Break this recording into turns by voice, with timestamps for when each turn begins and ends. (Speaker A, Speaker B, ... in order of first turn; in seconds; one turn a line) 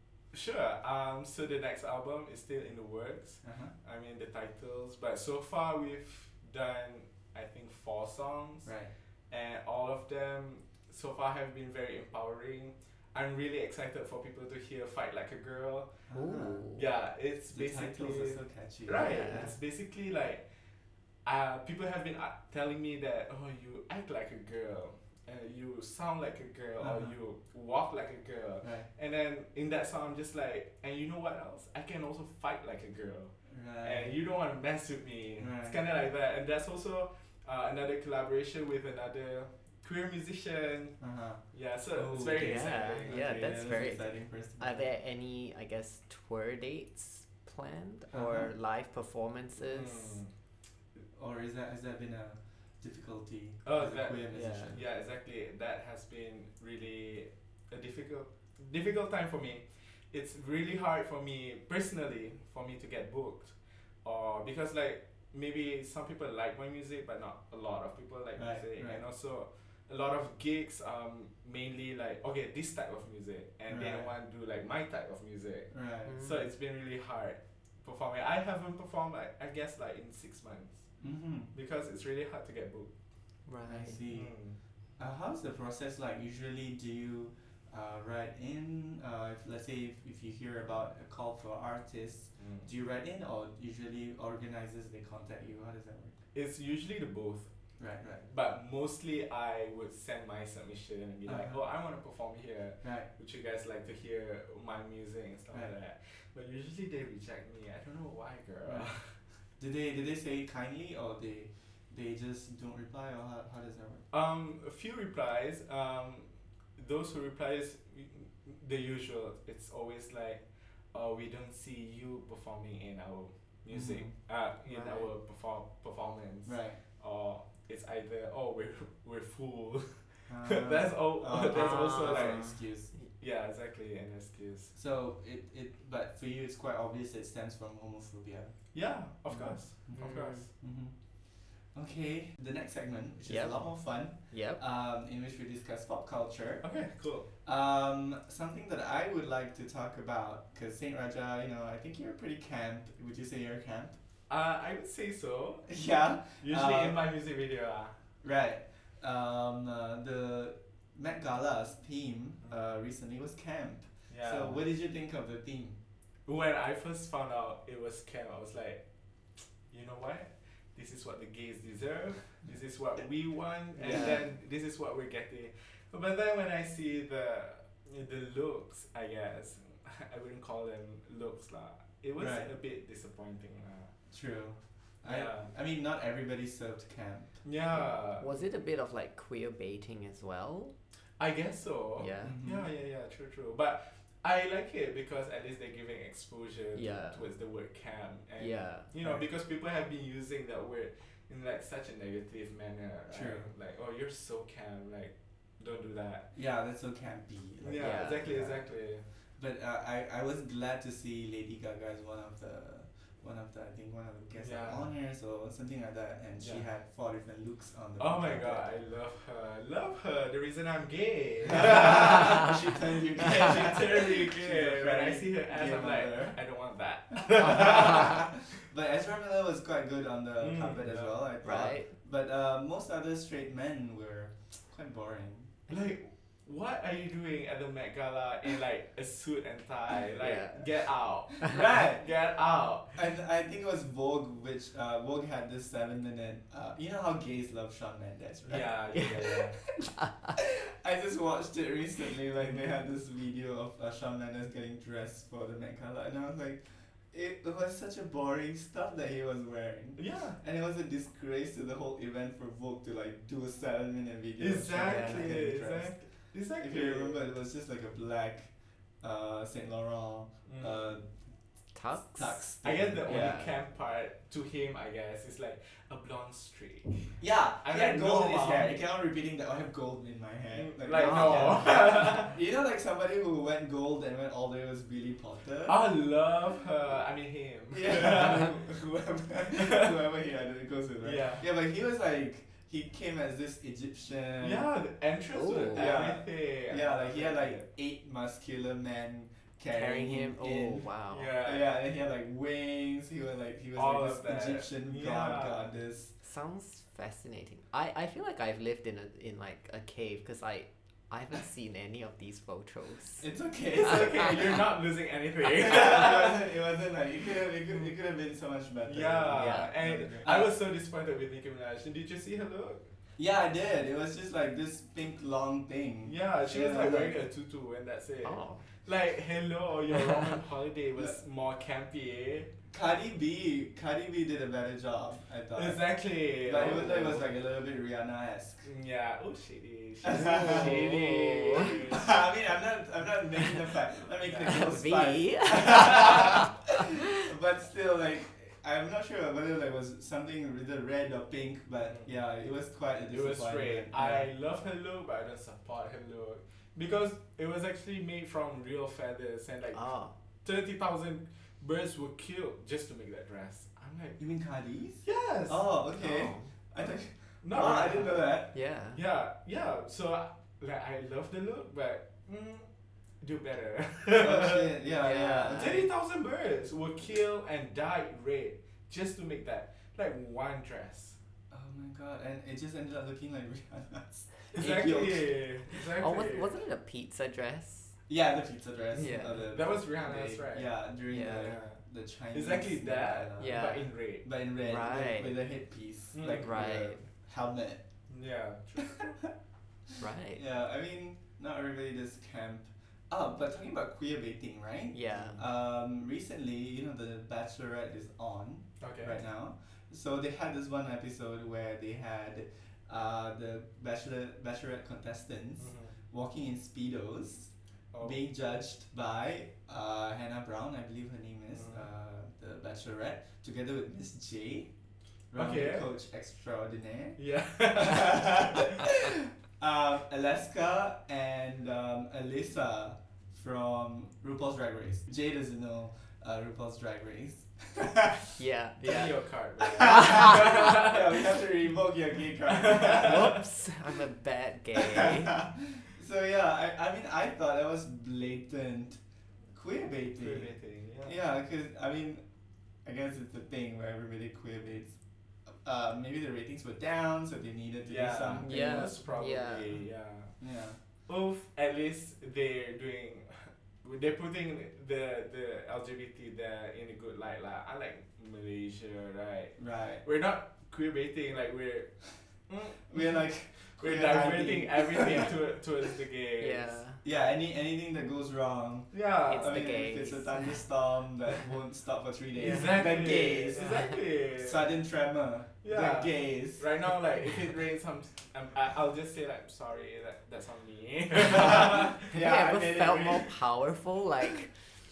Speaker A: 0.3-8.7
Speaker B: 3.4-3.7
Speaker B: 8.6-8.9
Speaker A: 9.3-16.0
Speaker B: 16.1-16.7
Speaker C: 16.1-16.9
Speaker A: 16.8-20.4
Speaker B: 17.5-19.6
Speaker C: 18.9-19.6
Speaker A: 21.2-41.0
Speaker B: 26.8-27.1
Speaker B: 28.6-28.9
Speaker B: 33.5-34.2
Speaker B: 35.4-35.8
Speaker B: 41.0-44.9
Speaker A: 41.5-43.2
Speaker C: 42.4-50.2
Speaker B: 48.1-48.5
Speaker A: 49.6-50.3
Speaker B: 51.1-54.8
Speaker A: 53.6-80.9
Speaker C: 54.3-54.7
Speaker B: 68.4-69.0
Speaker B: 73.7-74.1
Speaker B: 75.7-76.2
Speaker C: 76.0-76.4
Speaker B: 81.0-81.5
Speaker A: 81.5-82.9
Speaker C: 83.5-84.0
Speaker B: 83.6-84.3
Speaker A: 84.1-84.6
Speaker B: 85.0-96.2
Speaker A: 92.4-92.7
Speaker A: 96.3-97.5
Speaker B: 97.8-98.2
Speaker A: 98.2-109.1
Speaker B: 101.2-101.6
Speaker B: 102.8-103.1
Speaker B: 108.6-108.9
Speaker B: 109.6-114.1
Speaker A: 114.1-132.6
Speaker B: 123.7-124.1
Speaker C: 124.7-125.1
Speaker B: 126.5-126.8
Speaker B: 130.3-132.9
Speaker C: 131.5-133.0
Speaker A: 133.2-134.7
Speaker B: 134.7-138.6
Speaker A: 138.7-140.5
Speaker B: 139.3-140.9
Speaker C: 140.0-140.5
Speaker B: 141.7-146.6
Speaker C: 143.3-144.6
Speaker A: 146.6-147.3
Speaker B: 147.4-154.0
Speaker A: 154.3-155.7
Speaker B: 155.7-157.0
Speaker A: 156.3-158.0
Speaker B: 158.2-165.8
Speaker A: 164.1-164.6
Speaker A: 166.2-168.8
Speaker A: 169.7-183.9
Speaker B: 173.8-174.2
Speaker C: 173.9-174.2
Speaker B: 182.2-182.5
Speaker B: 184.1-187.4
Speaker A: 185.1-185.5
Speaker A: 187.4-188.4
Speaker C: 188.2-190.8
Speaker A: 191.2-206.3
Speaker C: 192.0-192.4
Speaker B: 192.2-192.7
Speaker C: 196.8-197.3
Speaker C: 198.4-198.9
Speaker B: 199.0-199.2
Speaker B: 203.1-203.5
Speaker B: 206.3-208.7
Speaker A: 207.6-209.0
Speaker C: 207.8-208.2
Speaker B: 209.4-218.7
Speaker A: 214.4-214.9
Speaker A: 218.0-228.5
Speaker B: 221.5-226.4
Speaker B: 227.1-235.5
Speaker A: 230.4-231.2
Speaker C: 231.4-231.9
Speaker A: 235.7-243.0
Speaker C: 240.2-240.7
Speaker B: 241.4-242.1
Speaker B: 242.9-266.0
Speaker A: 248.5-249.6
Speaker C: 249.9-250.3
Speaker A: 260.0-260.4
Speaker A: 264.4-267.2
Speaker C: 264.8-265.4
Speaker B: 266.6-271.1
Speaker A: 270.5-270.9
Speaker C: 271.7-272.5
Speaker B: 272.0-273.4
Speaker A: 272.6-278.8
Speaker C: 273.1-273.5
Speaker B: 277.2-285.8
Speaker A: 280.5-282.4
Speaker C: 280.9-281.7
Speaker A: 285.6-288.7
Speaker B: 287.7-294.7
Speaker A: 289.4-290.0
Speaker A: 291.0-291.5
Speaker A: 294.4-297.6
Speaker C: 295.3-295.9
Speaker B: 295.7-300.9
Speaker C: 299.7-301.3
Speaker A: 301.1-301.7
Speaker B: 301.4-306.1
Speaker A: 303.8-305.7
Speaker C: 306.2-313.3
Speaker B: 313.2-314.6
Speaker A: 313.7-316.4
Speaker B: 315.5-320.5
Speaker A: 318.9-322.9
Speaker C: 319.3-319.7
Speaker B: 323.2-327.2
Speaker A: 326.1-332.5
Speaker C: 328.2-328.6
Speaker C: 329.9-330.4
Speaker B: 332.7-335.8
Speaker A: 335.6-337.3
Speaker B: 336.4-338.6
Speaker A: 338.6-342.1
Speaker B: 340.0-340.9
Speaker C: 340.1-341.9
Speaker B: 341.9-354.3
Speaker A: 344.2-344.7
Speaker C: 344.4-346.6
Speaker A: 353.1-359.9
Speaker C: 359.7-360.1
Speaker A: 360.4-364.2
Speaker B: 364.2-368.5
Speaker A: 365.0-365.7
Speaker C: 366.0-366.5
Speaker A: 366.8-372.6
Speaker C: 368.5-369.0
Speaker A: 373.2-374.8
Speaker B: 374.1-375.9
Speaker C: 375.0-375.9
Speaker A: 375.5-381.2
Speaker B: 381.5-385.3
Speaker A: 384.5-386.6
Speaker C: 386.0-387.9
Speaker B: 388.1-393.6
Speaker C: 388.9-389.4
Speaker A: 389.4-390.7
Speaker C: 391.1-391.6
Speaker A: 391.3-391.8
Speaker A: 392.3-394.2
Speaker C: 393.4-393.9
Speaker B: 394.2-397.8
Speaker C: 394.6-395.4
Speaker A: 396.1-396.5
Speaker C: 396.2-397.0
Speaker A: 398.1-399.3
Speaker C: 400.0-400.4
Speaker B: 400.4-424.7
Speaker C: 404.9-405.4
Speaker A: 408.8-409.2
Speaker A: 415.6-415.9
Speaker A: 417.9-418.2
Speaker A: 421.6-421.9
Speaker B: 425.3-427.2
Speaker A: 425.3-425.9
Speaker A: 427.2-428.9
Speaker B: 427.7-438.3
Speaker C: 438.4-439.1
Speaker A: 438.8-441.4
Speaker B: 439.6-443.4
Speaker C: 439.8-440.7
Speaker A: 442.4-443.4
Speaker C: 442.9-445.4
Speaker B: 444.8-449.0
Speaker B: 449.5-452.2
Speaker A: 450.1-451.2
Speaker B: 452.9-459.0
Speaker A: 457.9-460.4
Speaker C: 458.4-459.8
Speaker B: 460.4-460.8
Speaker A: 461.1-477.4
Speaker B: 469.6-470.0
Speaker B: 472.9-475.4
Speaker C: 476.4-477.0
Speaker B: 477.0-486.8
Speaker A: 478.9-479.6
Speaker C: 479.3-480.6
Speaker A: 482.4-484.7
Speaker C: 482.4-483.9
Speaker A: 485.6-492.1
Speaker B: 491.2-493.3
Speaker C: 492.1-494.5